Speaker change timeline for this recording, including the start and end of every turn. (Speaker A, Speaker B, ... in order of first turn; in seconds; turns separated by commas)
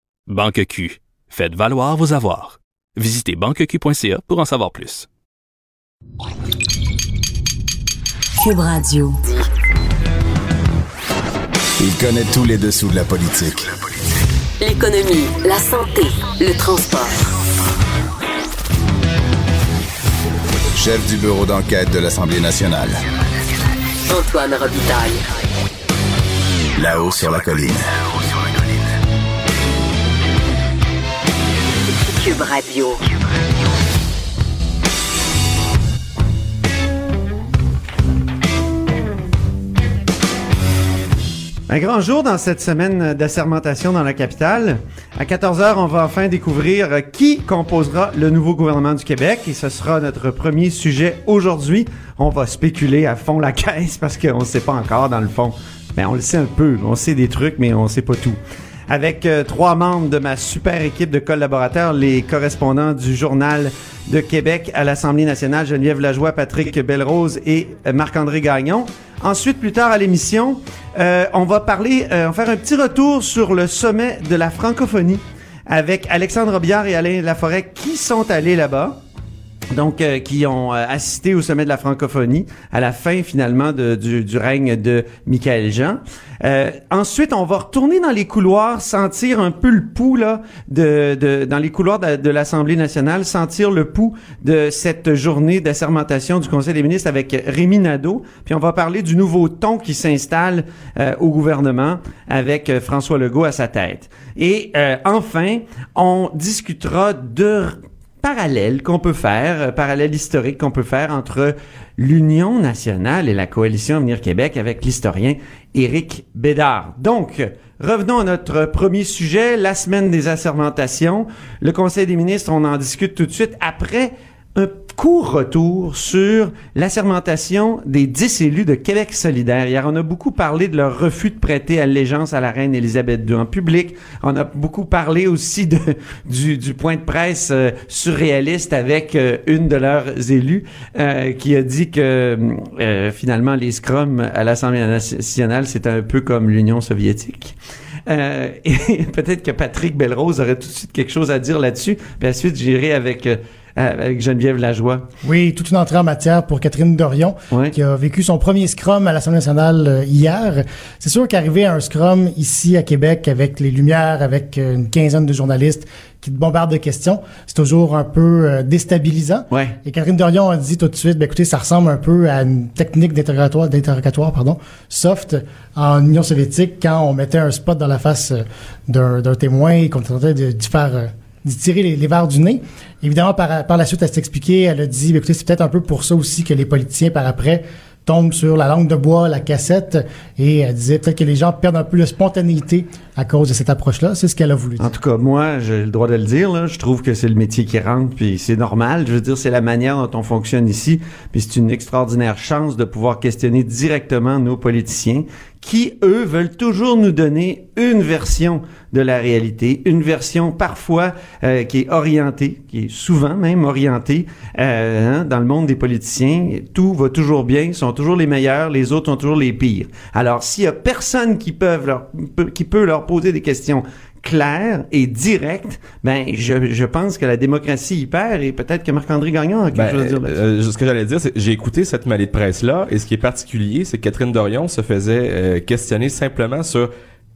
Speaker A: 0.3-5.1, Speaker B: 8.4-9.4, Speaker C: 11.8-13.7, Speaker B: 14.6-17.2, Speaker C: 20.8-23.0, Speaker B: 24.1-25.2, Speaker C: 26.8-27.9, Speaker B: 32.0-33.0, Speaker D: 41.7-58.4, Speaker D: 58.9-79.0, Speaker D: 79.7-155.1, Speaker E: 155.2-194.9, Speaker D: 169.5-169.8, Speaker D: 194.8-230.3, Speaker F: 229.7-236.9